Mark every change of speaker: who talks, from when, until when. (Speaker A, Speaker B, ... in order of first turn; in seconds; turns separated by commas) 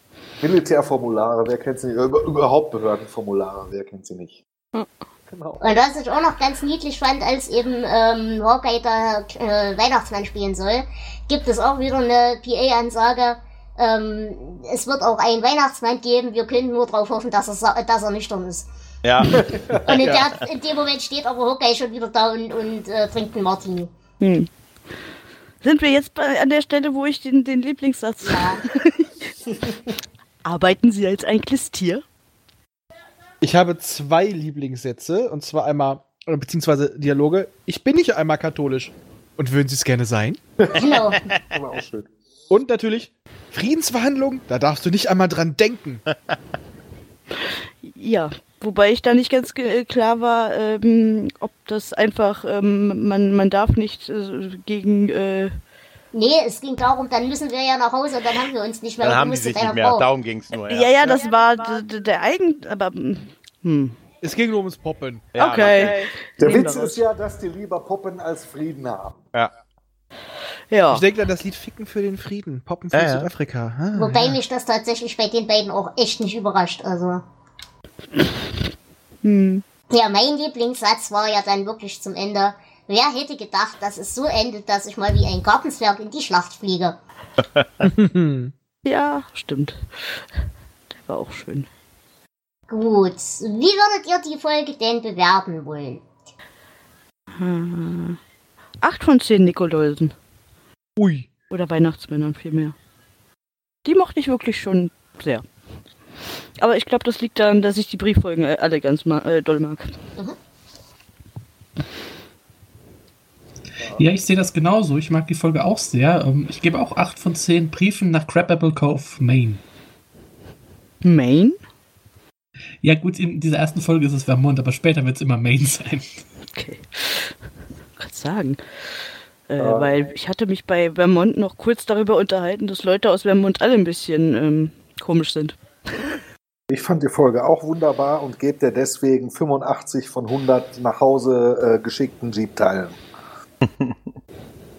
Speaker A: 0.4-4.4, Speaker A: 5.3-5.6, Speaker B: 5.6-18.7, Speaker C: 19.0-20.3, Speaker A: 19.3-19.7, Speaker B: 19.8-23.9, Speaker D: 24.2-24.5, Speaker D: 25.6-29.3, Speaker B: 28.2-28.6, Speaker D: 30.4-32.0, Speaker E: 33.4-40.4, Speaker A: 40.6-42.1, Speaker B: 40.7-41.2, Speaker E: 42.5-46.0, Speaker D: 47.4-55.5, Speaker B: 56.1-60.0, Speaker C: 59.0-61.2, Speaker D: 60.5-64.0, Speaker E: 64.2-65.3, Speaker C: 65.3-66.0, Speaker D: 65.4-67.0, Speaker A: 66.4-69.2, Speaker D: 70.7-71.0, Speaker E: 70.9-74.4, Speaker C: 72.9-73.3, Speaker B: 74.0-77.2, Speaker D: 79.2-79.6, Speaker B: 79.9-87.0, Speaker C: 87.6-87.9, Speaker E: 87.8-88.5, Speaker D: 88.8-90.2, Speaker D: 90.9-91.7, Speaker B: 92.7-96.0, Speaker D: 97.4-98.2, Speaker D: 98.8-100.1, Speaker E: 101.0-101.3, Speaker D: 101.5-102.8, Speaker D: 103.8-105.4, Speaker D: 106.6-109.9, Speaker F: 113.8-119.6, Speaker D: 121.0-121.6, Speaker F: 122.8-126.2, Speaker D: 126.5-127.3, Speaker D: 128.0-128.6, Speaker D: 129.5-135.6, Speaker A: 129.6-130.0, Speaker A: 136.7-143.0, Speaker C: 143.6-144.0